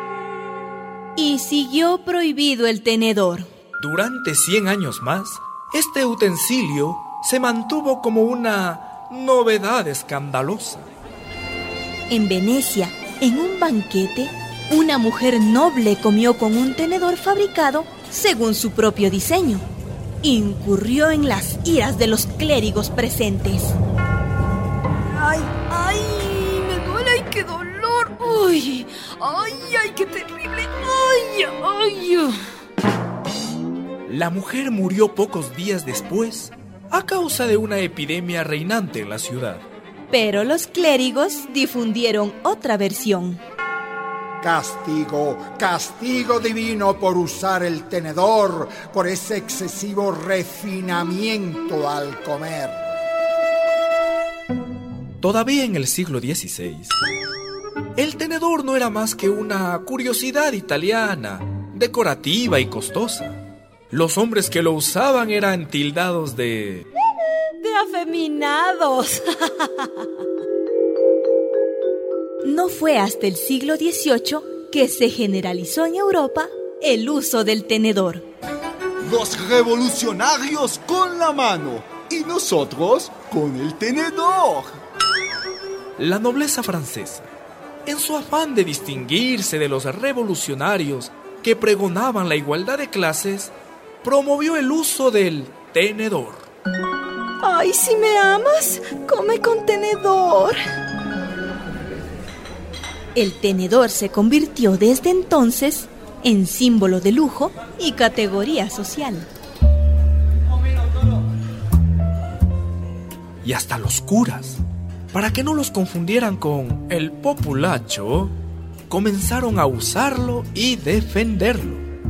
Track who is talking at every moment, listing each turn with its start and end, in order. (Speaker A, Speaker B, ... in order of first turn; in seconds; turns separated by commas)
Speaker A: 1.1-3.5, Speaker B: 3.8-10.9, Speaker A: 12.1-19.6, Speaker A: 20.2-23.8, Speaker C: 25.1-32.3, Speaker B: 34.1-39.6, Speaker A: 40.1-43.4, Speaker D: 44.4-52.8, Speaker B: 55.2-57.0, Speaker B: 58.0-63.4, Speaker B: 63.9-66.8, Speaker C: 67.6-69.9, Speaker A: 72.4-78.2, Speaker E: 79.0-84.7, Speaker B: 86.0-87.3, Speaker B: 87.8-96.5, Speaker C: 97.4-100.6, Speaker A: 103.1-109.3, Speaker B: 113.4-114.6, Speaker B: 115.1-118.3, Speaker B: 118.9-121.8